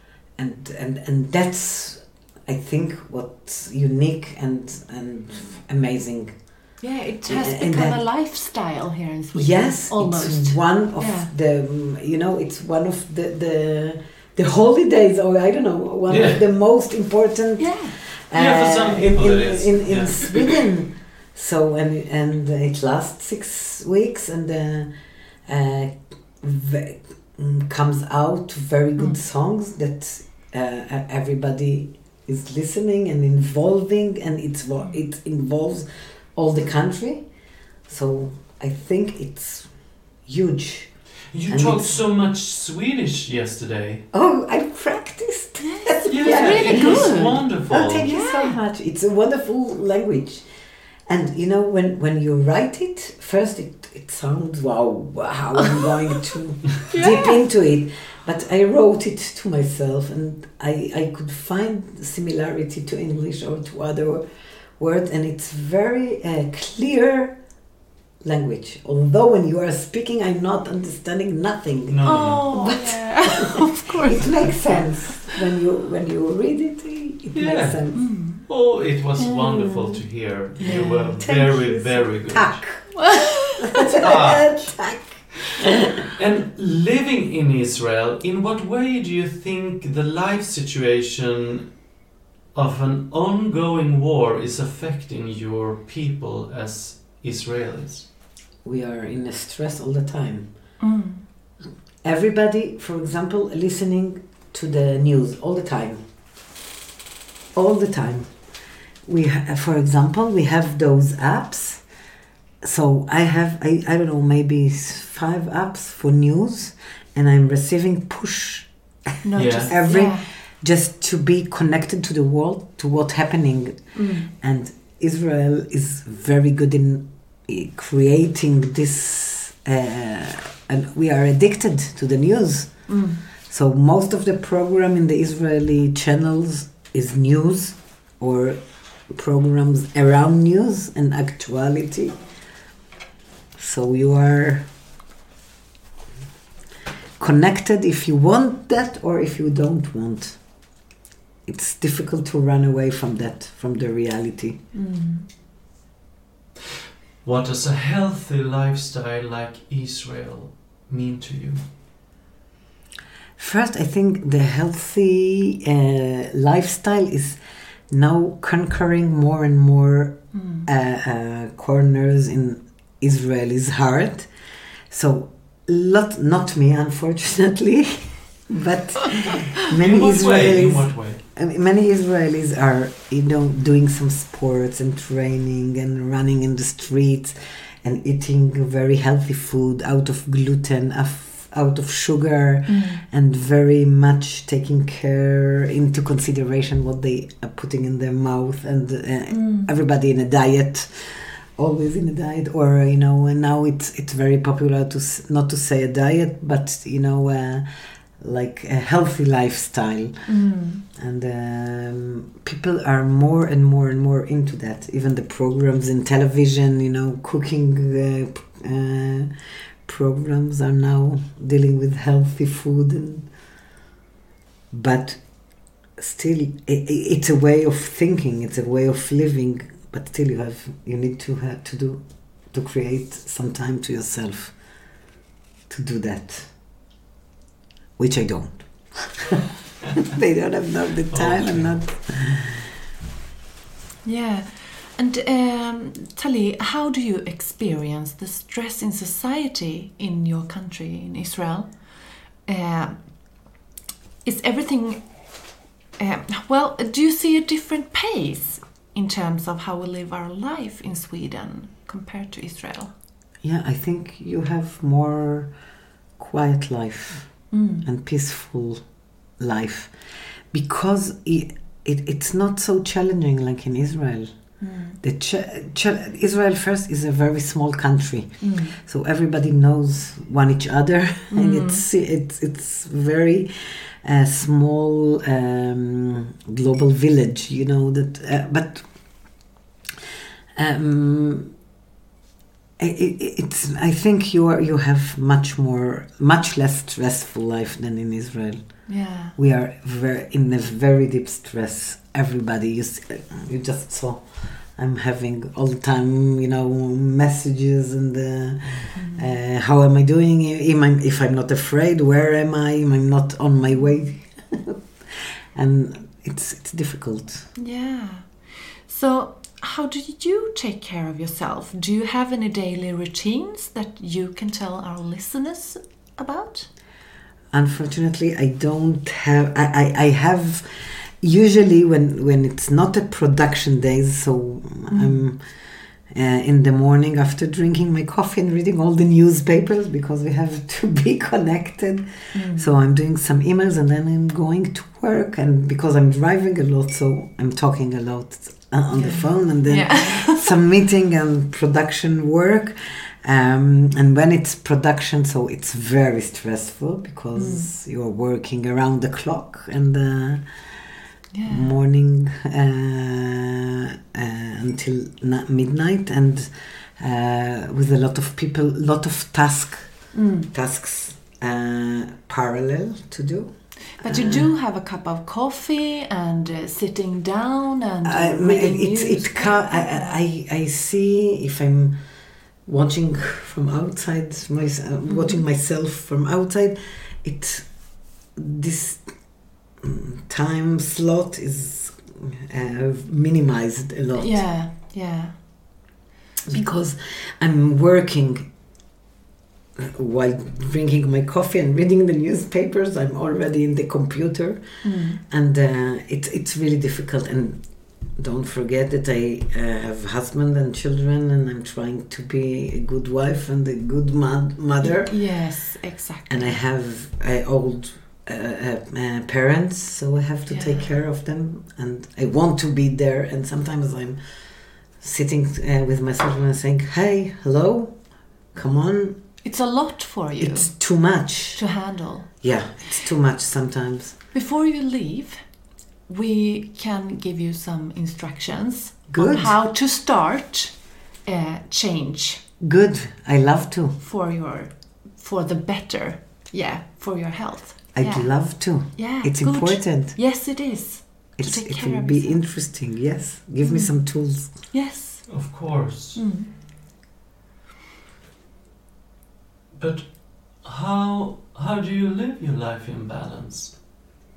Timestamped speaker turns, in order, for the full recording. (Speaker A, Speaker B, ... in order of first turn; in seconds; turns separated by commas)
Speaker A: 0.3-8.0, Speaker B: 6.8-11.3, Speaker A: 9.3-42.0, Speaker C: 16.1-16.4, Speaker B: 17.6-18.0, Speaker C: 18.3-20.6, Speaker C: 41.3-44.1, Speaker A: 44.1-50.5, Speaker B: 45.6-48.6, Speaker C: 46.1-48.1, Speaker A: 51.0-67.5, Speaker B: 56.9-57.4, Speaker A: 68.2-78.1, Speaker C: 71.9-72.7, Speaker B: 72.0-75.3, Speaker C: 77.3-83.0, Speaker B: 77.9-78.4, Speaker B: 79.2-79.9, Speaker B: 80.6-81.2, Speaker A: 80.6-85.5, Speaker B: 83.0-84.0, Speaker C: 83.9-85.2, Speaker C: 86.0-91.8, Speaker C: 92.5-98.1, Speaker A: 98.6-100.8, Speaker B: 100.8-101.2, Speaker A: 102.0-106.0, Speaker A: 107.5-112.0, Speaker A: 112.6-142.4, Speaker B: 119.2-120.2, Speaker C: 119.4-119.7, Speaker B: 123.9-124.3, Speaker B: 132.9-133.2, Speaker A: 143.6-144.7, Speaker A: 147.2-150.8, Speaker A: 151.4-154.6, Speaker B: 154.7-155.2, Speaker C: 157.2-161.6, Speaker A: 163.4-174.3, Speaker B: 170.3-170.7, Speaker A: 174.9-223.4, Speaker C: 179.7-181.2, Speaker B: 192.7-193.0, Speaker B: 199.3-199.7, Speaker B: 210.2-210.8, Speaker A: 224.7-234.9, Speaker A: 235.7-236.6, Speaker A: 238.0-239.4, Speaker A: 240.0-242.7, Speaker C: 241.1-241.8, Speaker B: 244.0-253.4, Speaker B: 254.2-255.4, Speaker B: 256.0-262.9, Speaker A: 263.4-289.4, Speaker B: 267.5-267.8, Speaker B: 274.6-275.0, Speaker B: 278.4-278.7, Speaker B: 281.3-281.8, Speaker A: 290.5-291.6, Speaker A: 292.8-317.5, Speaker B: 298.9-299.4, Speaker B: 308.9-309.3, Speaker B: 317.6-326.7, Speaker A: 327.5-360.8, Speaker B: 334.9-335.2, Speaker B: 342.3-342.8, Speaker B: 348.9-350.5, Speaker B: 357.3-357.7, Speaker B: 361.3-361.7, Speaker A: 361.4-374.5, Speaker B: 370.1-370.5, Speaker B: 374.0-380.2, Speaker A: 378.0-394.5, Speaker B: 385.1-385.4, Speaker B: 394.1-395.9, Speaker A: 396.5-398.5, Speaker A: 399.8-429.4, Speaker B: 404.8-405.2, Speaker B: 414.8-416.6, Speaker B: 420.5-420.9, Speaker B: 429.4-432.4, Speaker A: 430.4-431.8, Speaker A: 432.4-434.2, Speaker B: 434.3-442.4, Speaker A: 439.1-439.6, Speaker A: 442.6-444.0, Speaker B: 444.0-452.4, Speaker A: 447.9-450.3, Speaker A: 451.4-454.7, Speaker B: 453.6-456.5, Speaker C: 455.3-456.2, Speaker C: 459.7-463.8